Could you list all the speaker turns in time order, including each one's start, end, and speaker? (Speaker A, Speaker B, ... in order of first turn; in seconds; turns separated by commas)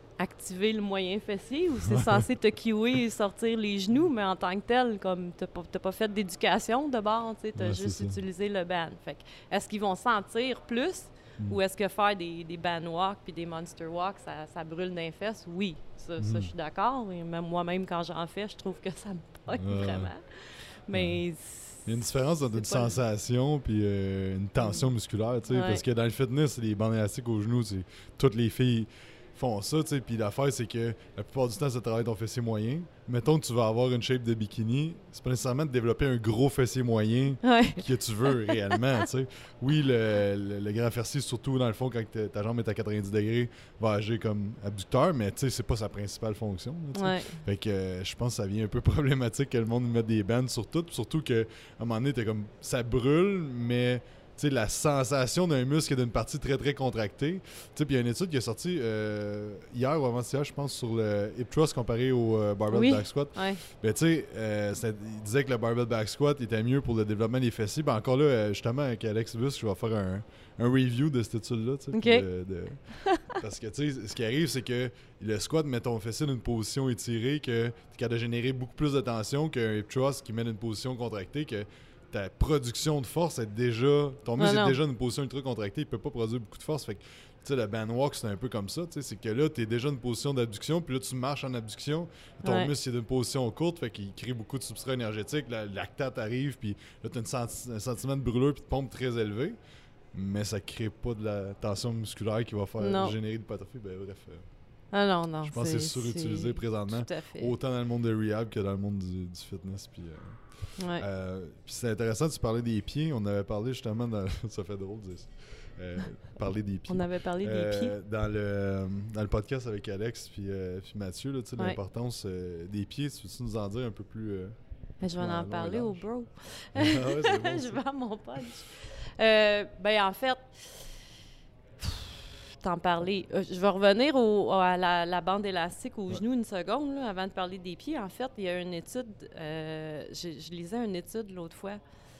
Speaker A: 0.2-23.0, Speaker B: 1.9-2.2, Speaker B: 7.6-8.2, Speaker B: 16.2-16.5, Speaker B: 19.6-20.1, Speaker B: 20.9-21.2, Speaker B: 21.9-99.6, Speaker A: 24.6-24.9, Speaker A: 25.5-25.8, Speaker A: 37.4-38.7, Speaker A: 47.0-47.4, Speaker A: 62.7-63.6, Speaker A: 71.9-72.3, Speaker A: 73.0-73.4, Speaker A: 84.4-84.8, Speaker A: 92.4-92.7, Speaker B: 100.1-104.5, Speaker A: 102.8-103.2, Speaker A: 104.9-107.5, Speaker B: 105.4-124.6, Speaker A: 110.8-111.1, Speaker A: 116.9-118.0, Speaker A: 125.0-130.9, Speaker B: 125.2-126.0, Speaker B: 126.7-127.8, Speaker A: 131.8-141.8